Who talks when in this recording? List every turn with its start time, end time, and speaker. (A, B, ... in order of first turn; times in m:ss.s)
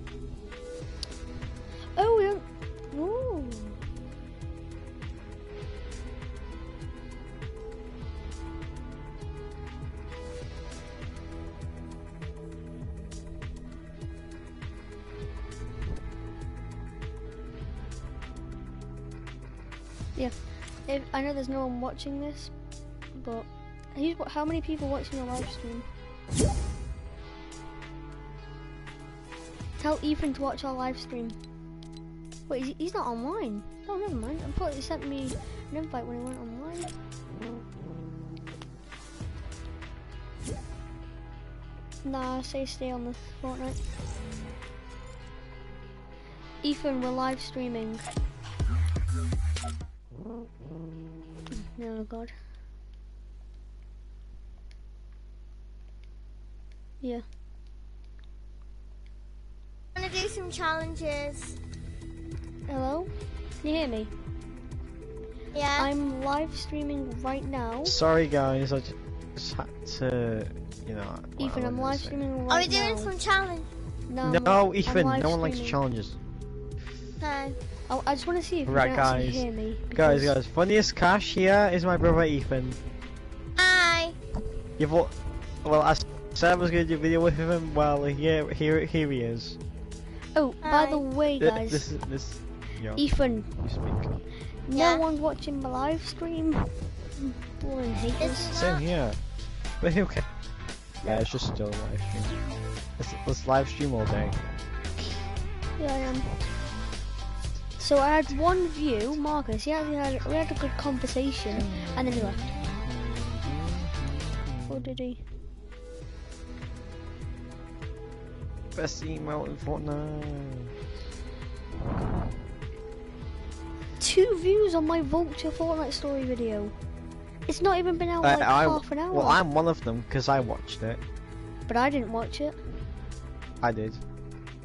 0:02.0-0:03.8 A
0:20.9-0:22.5 A
0:23.1-0:25.9 A
0:29.8-0:31.4 A
0:32.5-0:36.9 A
0:42.0-0:43.8 A
0:46.6-0:48.0 A
0:51.6-0:52.3 A
1:00.0-1:01.6 B
1:02.7-1:03.1 A
1:03.6-1:04.1 A
1:05.5-1:05.9 B
1:05.8-1:08.0 A
1:07.8-1:12.2 C
1:11.4-1:13.1 A
1:12.5-1:13.7 B
1:14.1-1:15.8 A
1:14.2-1:16.2 C
1:17.2-1:17.6 B
1:17.9-1:20.3 A
1:18.6-1:22.8 C
1:23.6-1:24.2 B
1:24.8-1:29.6 C
1:30.3-1:32.0 A
1:30.6-1:31.0 B
1:31.4-1:33.0 C
1:33.0-1:33.6 A
1:33.6-1:34.1 C
1:34.7-1:38.6 A
1:34.7-1:35.0 B
1:38.2-1:38.8 B
1:38.5-1:39.2 C
1:39.8-1:40.2 C
1:41.0-1:42.4 C
1:43.0-1:44.4 C
1:45.8-1:46.4 A
1:47.8-1:52.4 A
1:51.5-1:55.0 C
1:54.7-1:55.2 A
1:58.7-2:00.7 C
2:04.0-2:06.7 A
2:07.5-2:09.4 A
2:08.2-2:11.0 C
2:11.7-2:12.6 A
2:13.6-2:14.0 C